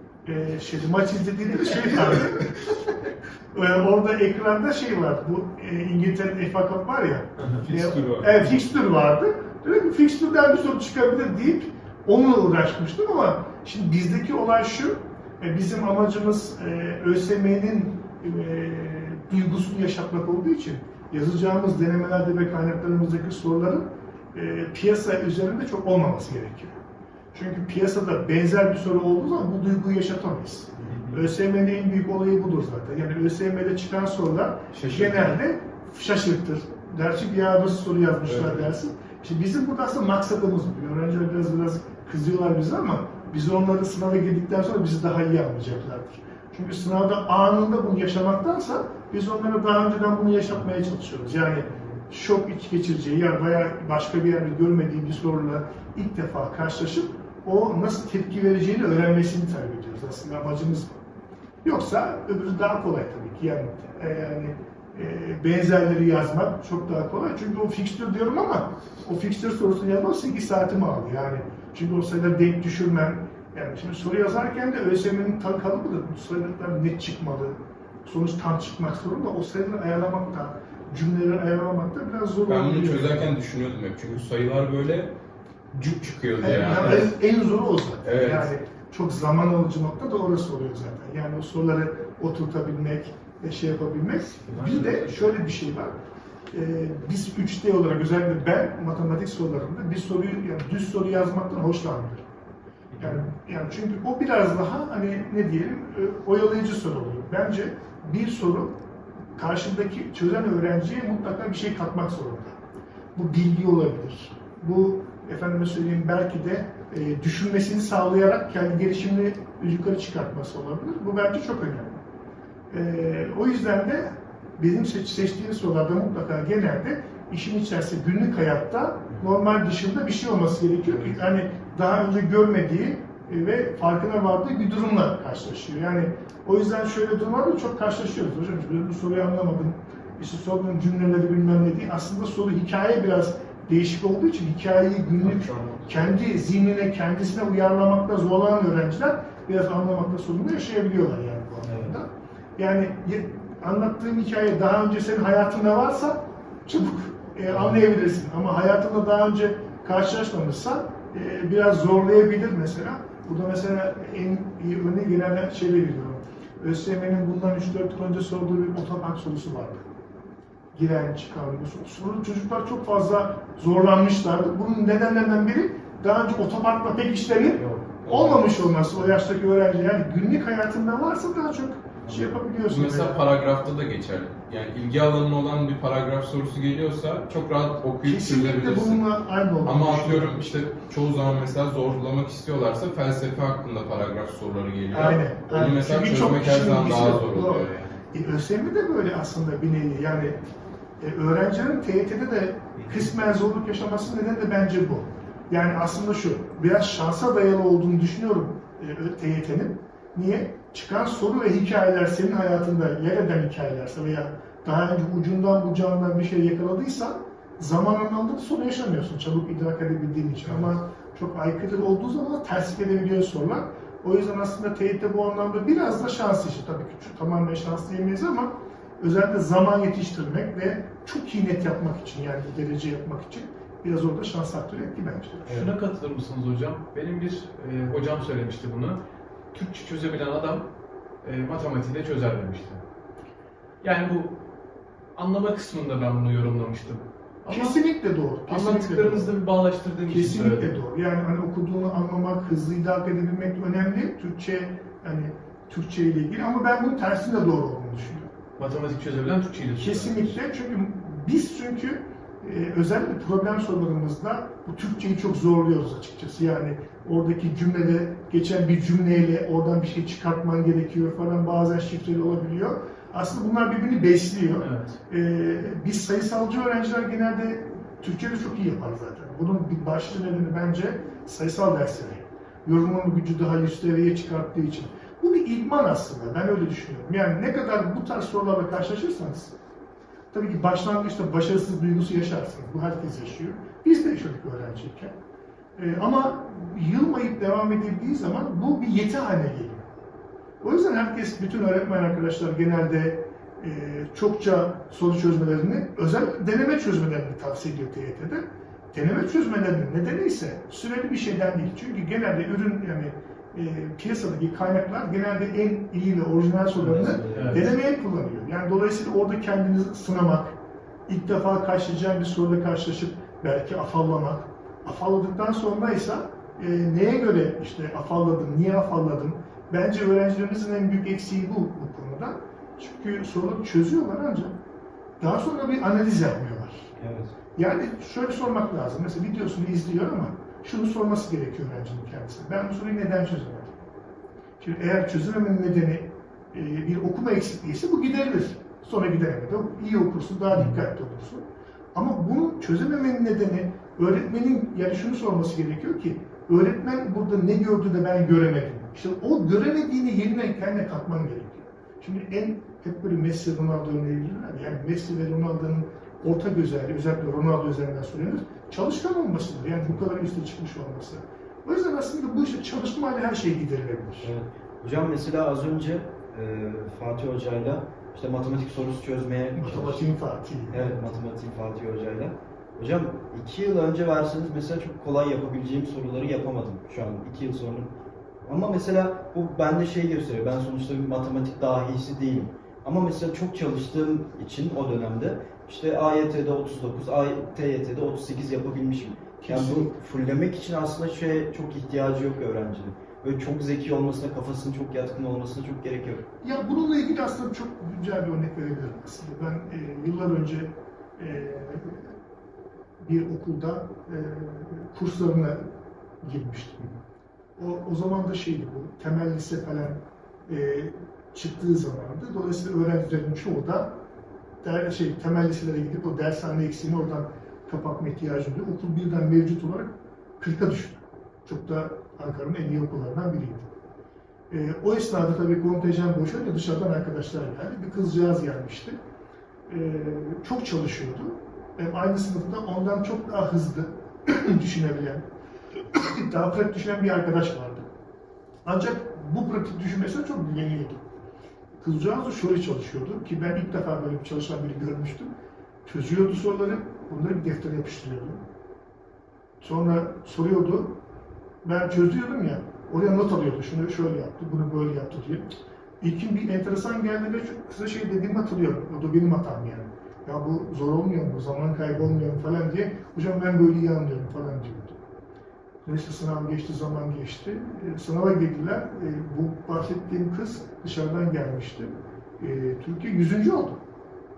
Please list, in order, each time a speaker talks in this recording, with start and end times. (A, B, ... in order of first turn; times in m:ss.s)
0:00.2-0:02.9 A
0:03.5-0:26.8 A
0:07.4-0:08.5 B
0:27.3-1:01.0 A
0:30.8-0:31.2 B
0:34.7-0:35.4 B
0:38.2-0:38.7 B
1:01.6-1:23.3 A
1:22.5-1:25.1 B
1:25.7-1:27.1 B
1:26.4-1:35.9 A
1:28.0-1:28.5 B
1:34.5-1:35.0 B
1:36.5-1:42.2 A
1:42.9-1:43.2 C
1:43.0-1:48.8 A
1:49.4-1:52.6 A
1:53.1-2:02.0 A
2:02.7-2:49.9 A
2:25.2-2:26.2 C
2:31.6-2:32.0 C
2:37.5-2:37.8 C
2:50.7-3:03.2 A
2:57.6-2:58.1 C
2:58.0-2:58.7 B
3:02.0-3:02.3 C
3:02.7-3:09.0 B
3:08.0-3:10.7 A
3:09.6-3:18.0 B
3:14.9-3:20.4 A
3:21.0-3:55.7 A
3:22.8-3:23.0 C
3:55.4-3:59.0 D
3:59.5-4:00.7 D
4:01.2-4:02.8 D
4:03.8-4:04.4 D
4:05.1-4:07.8 D
4:07.5-4:09.3 A
4:08.4-4:10.7 D
4:10.1-4:18.4 A
4:18.6-4:20.4 D
4:19.8-4:49.5 A
4:34.6-4:35.0 D
4:50.3-4:55.2 A
4:55.8-4:59.9 A
5:00.6-5:34.6 A
5:16.7-5:17.7 C
5:17.3-5:17.7 D
5:35.2-5:36.9 A
5:37.0-5:37.3 C
5:37.6-5:43.8 A
5:44.6-6:14.3 A
6:14.2-6:20.1 C
6:19.6-6:20.9 A
6:20.7-6:27.9 C
6:28.4-6:46.3 C
6:39.4-6:40.0 A
6:46.4-6:52.1 A
6:53.0-6:56.8 A
6:57.6-7:04.0 A
7:04.6-7:13.7 A
7:14.5-7:19.0 A
7:19.7-7:25.2 A
7:25.9-7:27.9 A
7:28.6-7:31.1 A
7:31.8-7:35.3 A
7:35.8-7:38.4 A
7:39.6-7:41.0 A
7:41.6-7:45.5 A
7:46.0-7:55.0 A
7:55.8-8:03.8 A